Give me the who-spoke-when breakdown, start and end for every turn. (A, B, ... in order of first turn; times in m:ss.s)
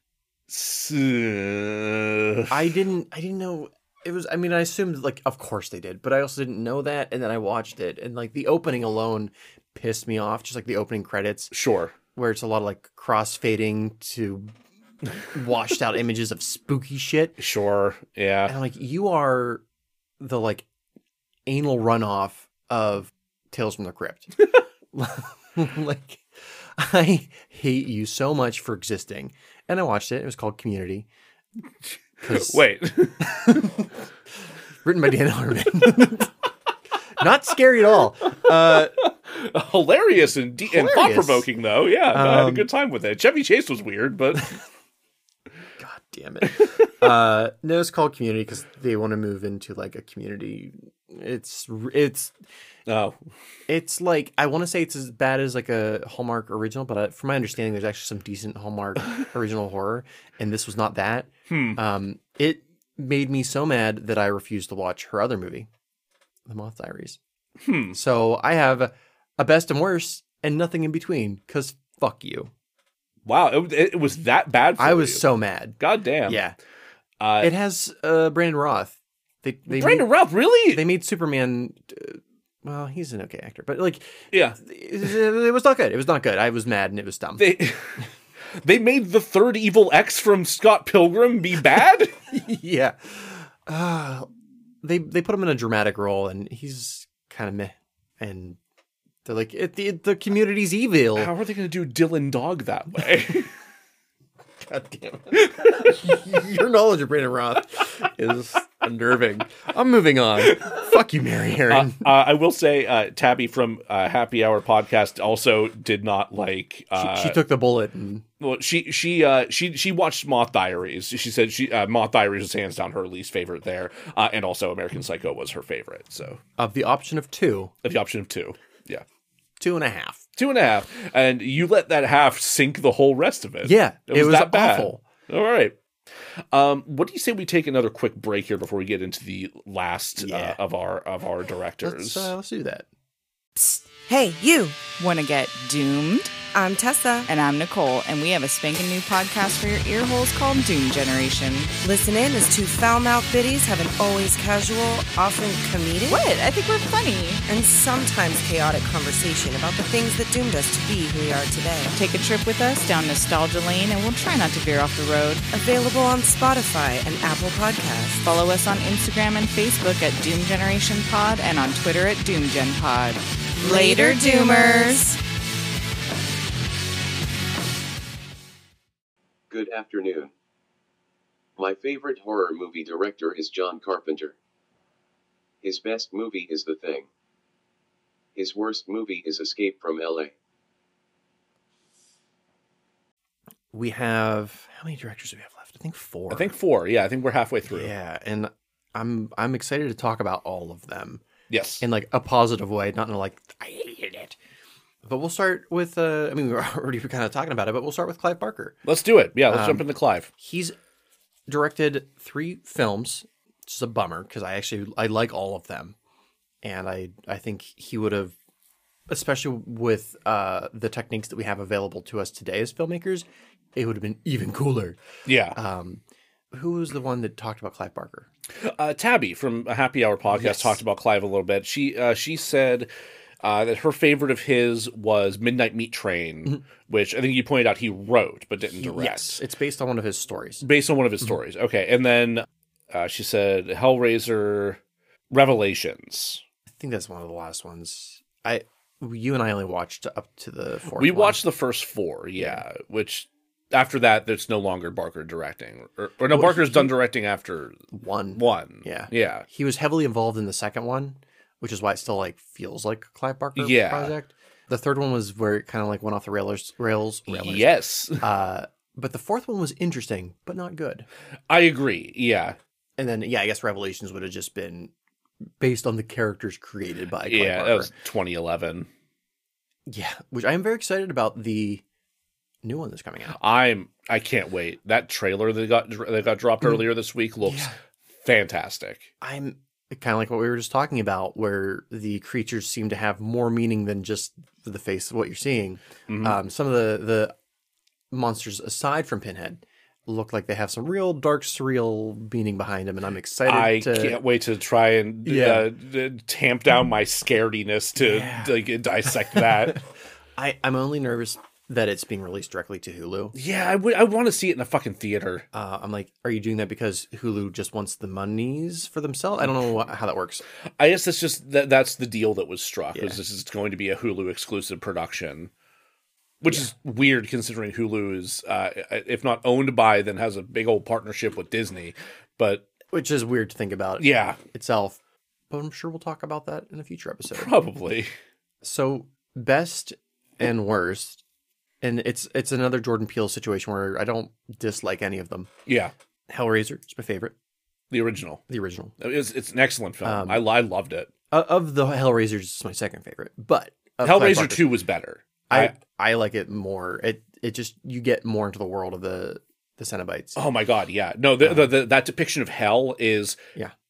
0:00.5-0:02.6 A
0:02.5-0:11.5 B
0:11.5-0:11.9 A
0:12.1-0:14.5 B
0:15.3-0:17.4 B
0:17.4-0:18.5 A
0:18.5-0:19.6 B
0:20.2-0:20.6 B
0:21.5-0:24.4 B
0:24.9-0:26.2 B
0:26.8-0:31.1 B
0:32.2-0:32.6 B
0:32.2-0:33.6 A
0:33.2-0:33.9 B
0:34.8-0:36.3 B
0:37.2-0:39.0 B
0:39.0-0:44.6 A
0:40.7-0:41.5 B
0:42.1-0:42.7 B
0:45.8-0:52.3 B
0:52.9-0:53.2 A
0:53.7-1:05.7 B
1:01.5-1:01.8 A
1:06.5-1:07.2 B
1:07.6-1:08.0 A
1:07.9-1:12.5 B
1:13.2-1:15.2 A
1:14.8-1:16.5 B
1:15.8-1:16.4 A
1:17.2-1:17.5 A
1:17.4-1:20.1 B
1:19.7-1:20.8 A
1:20.7-1:27.5 B
1:24.3-1:24.6 A
1:27.4-1:28.0 A
1:28.5-1:32.1 A
1:32.3-1:34.3 B
1:34.8-1:38.6 B
1:39.2-1:41.3 B
1:41.2-1:43.5 A
1:44.6-1:52.1 B
1:51.7-1:57.4 A
1:57.0-1:58.2 B
1:58.4-2:06.4 A
2:06.6-2:07.7 B
2:07.8-2:09.0 A
2:09.6-2:10.2 B
2:10.4-2:15.8 A
2:13.6-2:15.0 B
2:16.5-2:22.3 A
2:20.2-2:20.6 B
2:21.8-2:22.8 B
2:23.6-2:24.8 C
2:25.0-2:26.4 D
2:26.5-2:27.3 C
2:27.3-2:31.7 D
2:31.8-2:36.2 C
2:36.1-2:37.4 D
2:37.5-2:41.9 C
2:41.9-2:45.5 D
2:45.5-2:48.2 C
2:48.2-2:55.2 D
2:53.6-2:55.2 C
2:59.5-3:00.3 E
3:01.6-3:04.4 E
3:05.6-3:07.1 E
3:08.3-3:10.3 E
3:13.7-3:16.5 B
3:16.3-3:17.9 A
3:17.7-3:21.2 B
3:21.5-3:21.8 A
3:21.8-3:24.4 B
3:25.0-3:28.8 B
3:28.8-3:30.3 A
3:29.5-3:30.8 B
3:31.5-3:35.9 B
3:36.6-3:38.3 B
3:39.1-3:45.0 B
3:45.2-3:45.6 A
3:45.5-3:48.3 B
3:48.6-3:52.9 A
3:50.3-3:50.8 B
3:53.4-3:59.4 A
3:58.8-4:00.6 B
4:00.6-4:06.4 A
4:06.7-4:11.4 B
4:11.0-4:17.8 A
4:16.3-4:16.9 B
4:17.9-4:31.1 B
4:18.4-4:19.4 A
4:23.6-4:24.1 A
4:27.3-4:28.2 A
4:31.5-4:32.6 A
4:33.0-4:34.9 B
4:35.6-4:37.9 B
4:37.2-4:38.9 A
4:39.9-4:41.8 B
4:42.6-4:43.4 B
4:43.3-4:47.7 A
4:47.4-4:47.8 B
4:48.2-4:49.1 A
4:49.2-4:57.3 B
4:56.1-4:56.4 A
4:58.1-5:04.2 B
5:03.4-5:09.8 A
5:05.2-5:05.7 B
5:08.0-5:08.5 B
5:09.3-5:09.8 B
5:10.4-5:13.3 B
5:13.3-5:15.4 A
5:15.5-5:20.4 B
5:20.8-5:25.5 A
5:26.4-5:32.6 A
5:32.9-5:35.0 B
5:34.0-5:34.4 A
5:35.5-5:37.5 B
5:37.3-5:38.1 A
5:38.6-5:41.2 B
5:41.8-5:45.5 B
5:45.7-5:45.9 A
5:46.3-5:47.3 B
5:47.9-5:48.4 A
5:48.5-5:48.9 B
5:49.0-5:51.1 A
5:50.0-5:50.4 B
5:51.3-5:54.7 B
5:54.0-5:55.7 A
5:55.5-6:00.4 B
6:00.4-6:03.4 A
6:01.4-6:01.7 B